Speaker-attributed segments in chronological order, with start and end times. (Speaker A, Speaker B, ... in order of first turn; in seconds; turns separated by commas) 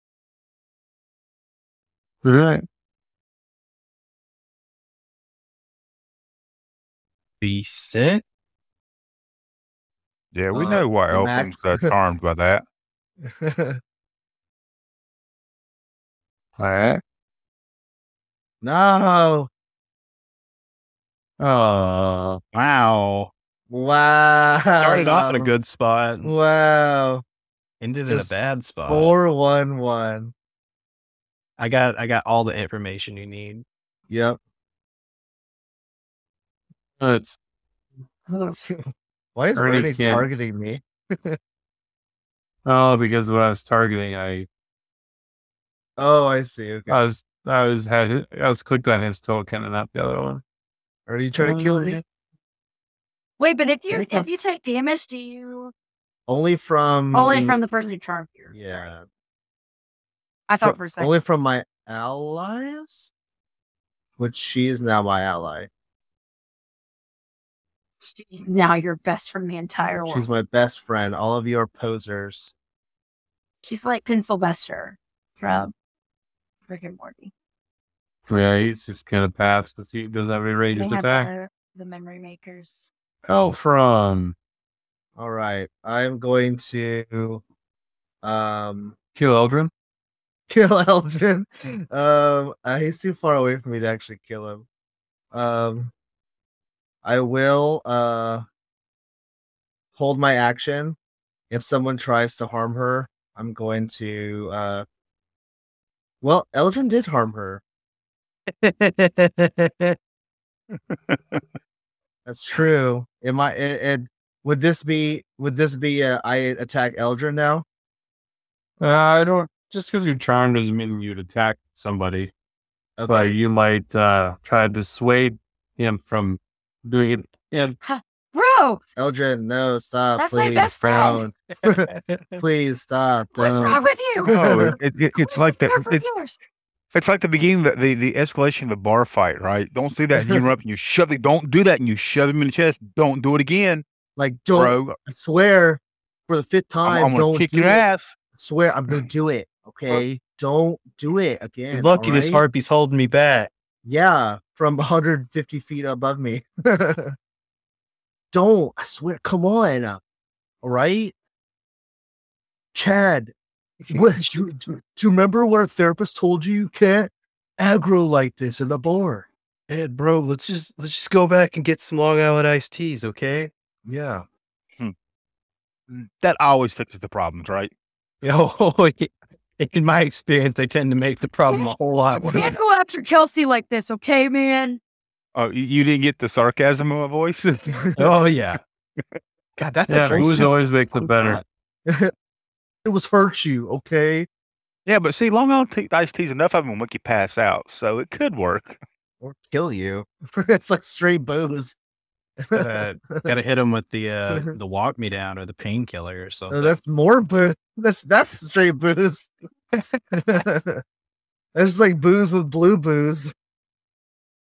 Speaker A: 2.2-2.7, Speaker B: 7.4-8.2, Speaker C: 10.3-12.6, Speaker D: 10.5-11.7, Speaker D: 13.2-13.8, Speaker A: 16.6-17.0, Speaker D: 18.6-19.5, Speaker A: 21.4-22.4, Speaker C: 22.5-23.3, Speaker D: 23.7-25.5, Speaker B: 24.8-26.4, Speaker D: 26.2-27.2, Speaker B: 27.8-29.1, Speaker D: 28.1-30.3, Speaker B: 31.6-33.6, Speaker D: 34.1-34.4, Speaker A: 37.0-37.4, Speaker E: 38.3-38.6, Speaker D: 39.4-41.4, Speaker A: 39.5-40.3, Speaker A: 42.7-44.5, Speaker D: 46.0-47.0, Speaker A: 46.9-50.4, Speaker D: 51.1-52.0, Speaker A: 51.4-52.0, Speaker E: 53.4-55.7, Speaker D: 53.9-54.3, Speaker D: 56.3-57.6, Speaker E: 57.1-58.9, Speaker D: 58.5-59.0, Speaker E: 60.5-61.1, Speaker D: 60.9-63.1, Speaker D: 64.2-65.7, Speaker E: 68.0-70.3, Speaker D: 70.0-72.5, Speaker E: 73.6-75.7, Speaker E: 76.7-77.3, Speaker A: 78.3-81.3, Speaker E: 80.7-82.9, Speaker A: 83.3-84.4, Speaker D: 85.2-87.4, Speaker D: 88.2-89.0, Speaker A: 89.2-89.7, Speaker D: 90.5-94.7, Speaker D: 95.3-95.9, Speaker D: 97.0-98.5, Speaker D: 100.0-101.0, Speaker D: 101.5-104.8, Speaker D: 106.2-107.6, Speaker B: 108.6-109.9, Speaker C: 110.9-111.4, Speaker D: 112.3-117.7, Speaker A: 118.8-122.3, Speaker D: 123.0-123.4, Speaker A: 123.1-127.8, Speaker E: 127.8-128.8, Speaker D: 129.0-131.9, Speaker E: 130.2-131.3, Speaker B: 131.9-132.4, Speaker D: 132.4-133.8, Speaker E: 133.3-136.4, Speaker C: 134.3-136.0, Speaker D: 134.3-134.8, Speaker C: 136.9-143.8, Speaker D: 144.2-147.8, Speaker C: 144.5-145.0, Speaker C: 146.8-148.2, Speaker D: 148.4-152.4, Speaker B: 151.7-153.5, Speaker D: 153.8-157.2, Speaker D: 158.3-160.0, Speaker D: 160.6-161.2, Speaker D: 162.7-163.3, Speaker D: 163.9-169.3, Speaker B: 169.7-173.5, Speaker D: 173.9-174.2, Speaker C: 176.2-177.7, Speaker B: 178.2-182.6, Speaker E: 181.5-184.8, Speaker C: 185.3-187.9, Speaker B: 188.0-188.6, Speaker B: 189.6-191.4, Speaker A: 189.9-191.4, Speaker D: 190.1-190.5, Speaker D: 191.9-192.1, Speaker D: 192.8-194.3, Speaker C: 194.9-198.8, Speaker D: 199.2-201.8, Speaker D: 202.4-203.3, Speaker B: 202.5-206.8, Speaker D: 204.3-204.6, Speaker D: 206.5-210.8, Speaker D: 211.6-213.3